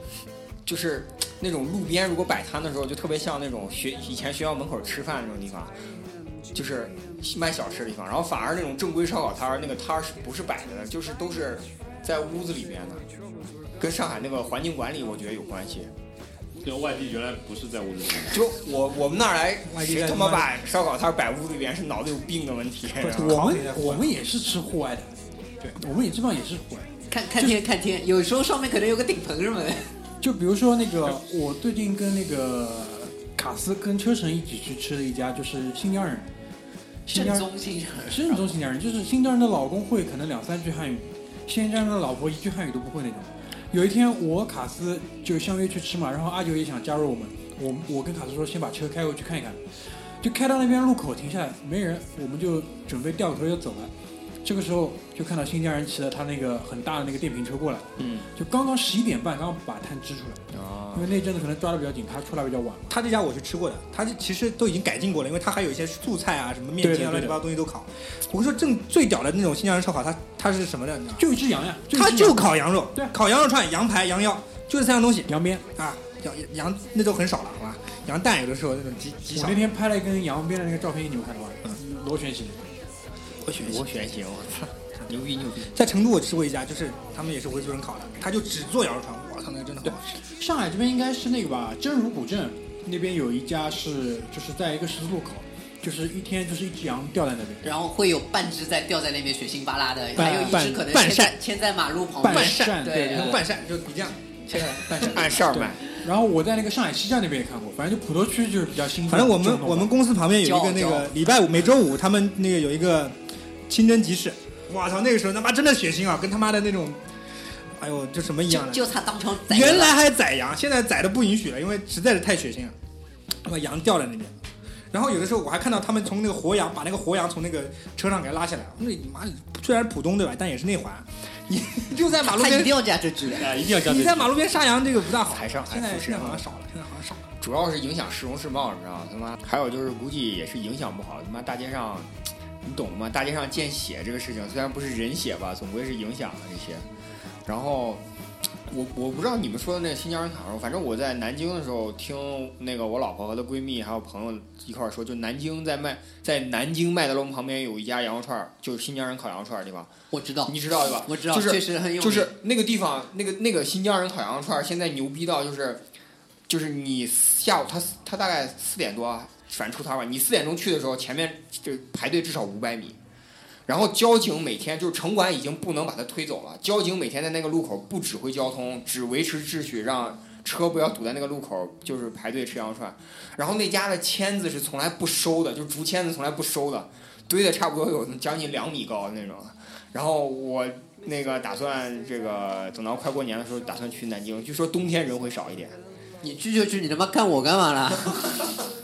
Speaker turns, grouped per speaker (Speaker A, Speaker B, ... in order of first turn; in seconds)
Speaker A: 0.7-5.7, 6.5-13.0, 13.8-15.9, 18.3-23.4, 58.0-58.3, 60.5-61.1, 83.5-85.7, 105.0-105.8, 135.2-136.4, 137.4-142.1, 142.6-146.8, 147.4-148.0, 148.7-159.9, 160.4-165.8, 166.5-173.0, 173.7-195.8
Speaker B: 16.6-18.4, 133.3-134.4
Speaker C: 19.7-20.5, 23.1-24.1, 62.9-71.3, 71.9-79.7, 83.5-83.9, 85.6-90.2, 100.1-101.4, 102.2-104.6, 109.0-117.0, 117.6-118.8, 119.4-122.8, 123.4-124.3, 124.9-132.8, 133.5-137.2
Speaker D: 23.0-25.1, 25.8-27.6, 30.2-36.3, 37.1-37.5, 38.0-53.9, 54.4-60.4, 60.9-62.9, 66.8-67.4, 71.2-73.1, 75.3-75.6, 79.3-82.6, 90.2-97.6, 102.2-103.4, 104.8-109.9
Speaker E: 27.1-29.9, 37.1-38.5, 97.6-103.4, 104.5-105.1, 110.4-111.1, 118.5-119.9, 132.2-133.5, 160.1-162.3, 196.2-198.5